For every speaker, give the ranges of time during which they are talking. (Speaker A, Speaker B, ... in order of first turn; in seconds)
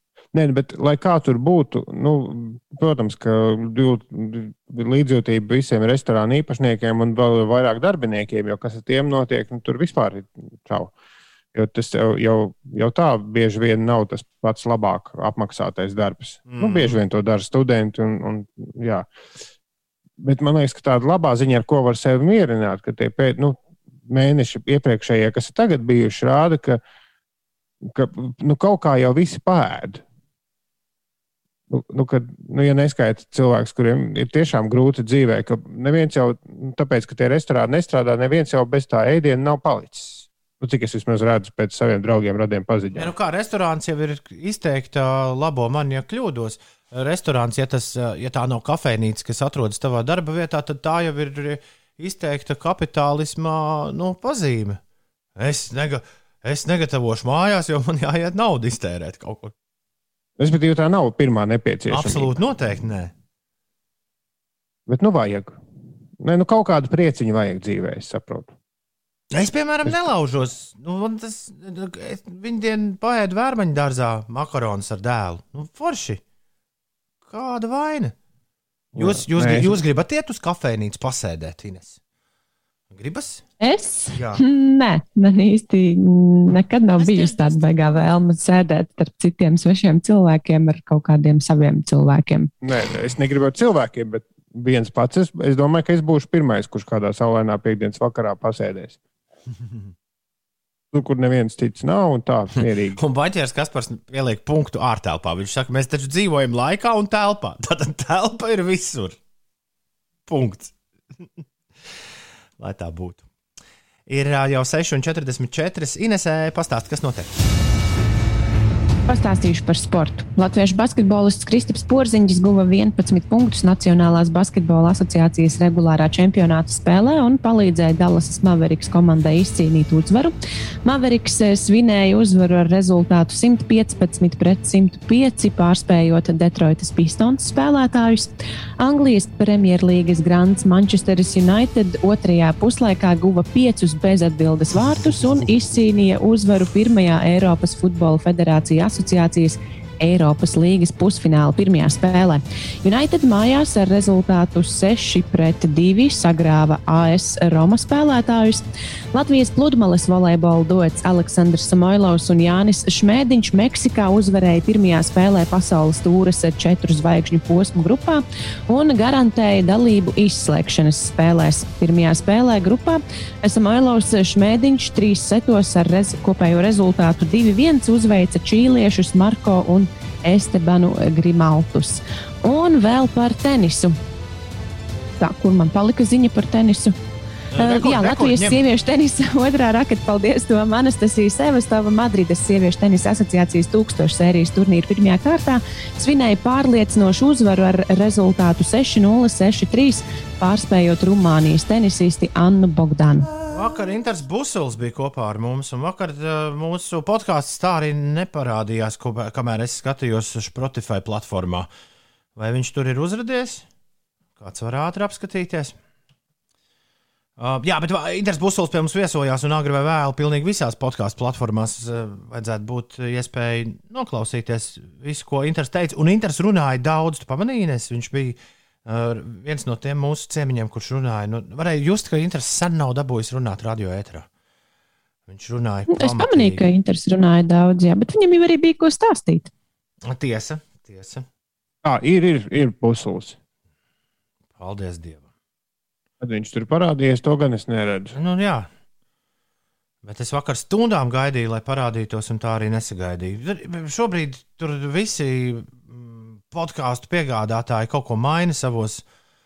Speaker A: 0.3-10.9, 11.6-19.1, 20.2-23.6, 24.1-26.8, 27.9-30.0, 31.7-43.1, 60.4-62.3, 64.9-65.6, 66.2-68.5, 78.9-79.8, 92.6-99.0, 100.9-103.0, 241.8-243.4, 246.2-248.1
Speaker B: 16.5-17.0, 42.9-54.8, 55.4-59.5, 61.9-63.1, 69.3-76.2, 77.2-78.2, 79.0-82.0, 82.9-83.5, 84.1-84.4, 87.0-87.8, 103.0-109.2, 110.3-110.7, 112.6-113.2, 114.1-117.3, 187.5-188.6, 203.5-211.7, 212.4-213.7, 214.4-215.8, 217.4-234.3, 235.3-236.7, 240.1-241.3, 244.6-245.3, 248.2-248.7, 250.0-259.0
Speaker C: 83.6-92.5, 119.1-130.3, 130.8-184.0, 185.2-186.9, 187.6-203.3, 235.9-239.5